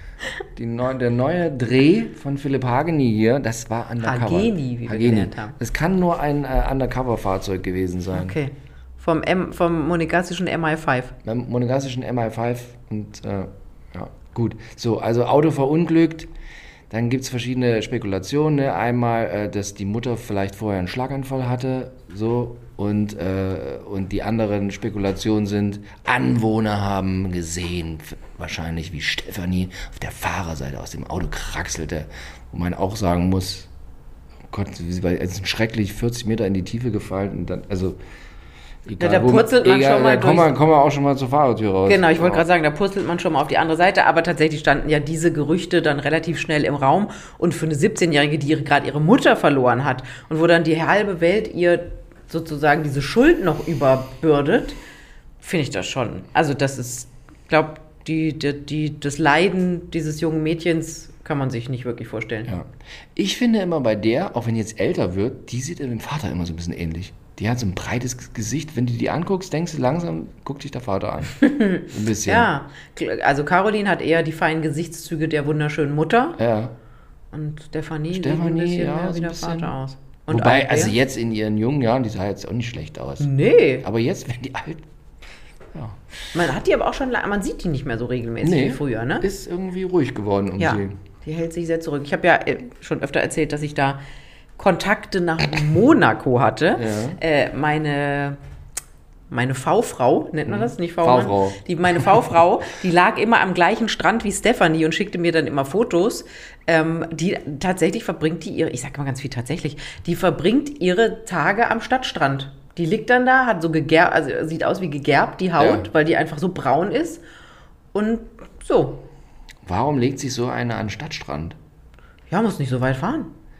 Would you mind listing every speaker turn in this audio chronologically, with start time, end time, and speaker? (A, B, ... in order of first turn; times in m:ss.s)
0:00.5-0:08.4 A
0:04.0-0:05.5 B
0:08.1-0:11.2 B
0:11.2-0:16.3 A
0:16.9-0:33.7 A
0:34.5-0:38.0 A
0:38.8-0:42.4 A
0:39.0-0:40.5 B
0:41.9-0:54.8 B
0:55.4-1:02.5 B
1:02.4-1:12.5 A
1:11.4-1:16.4 B
1:16.4-1:16.7 A
1:17.3-1:21.0 B
1:18.1-1:19.7 A
1:20.3-1:23.3 A
1:23.2-1:23.8 B
1:23.8-1:24.8 A
1:25.7-1:26.0 A
1:26.3-1:29.3 B
1:28.4-1:31.0 A
1:30.6-1:34.0 B
1:34.6-1:38.4 B
1:36.8-1:37.2 A
1:39.3-1:57.2 B
1:40.5-1:42.1 A
1:55.6-1:55.9 A
1:57.9-1:59.0 B
1:59.6-2:01.6 A
2:02.3-2:03.3 B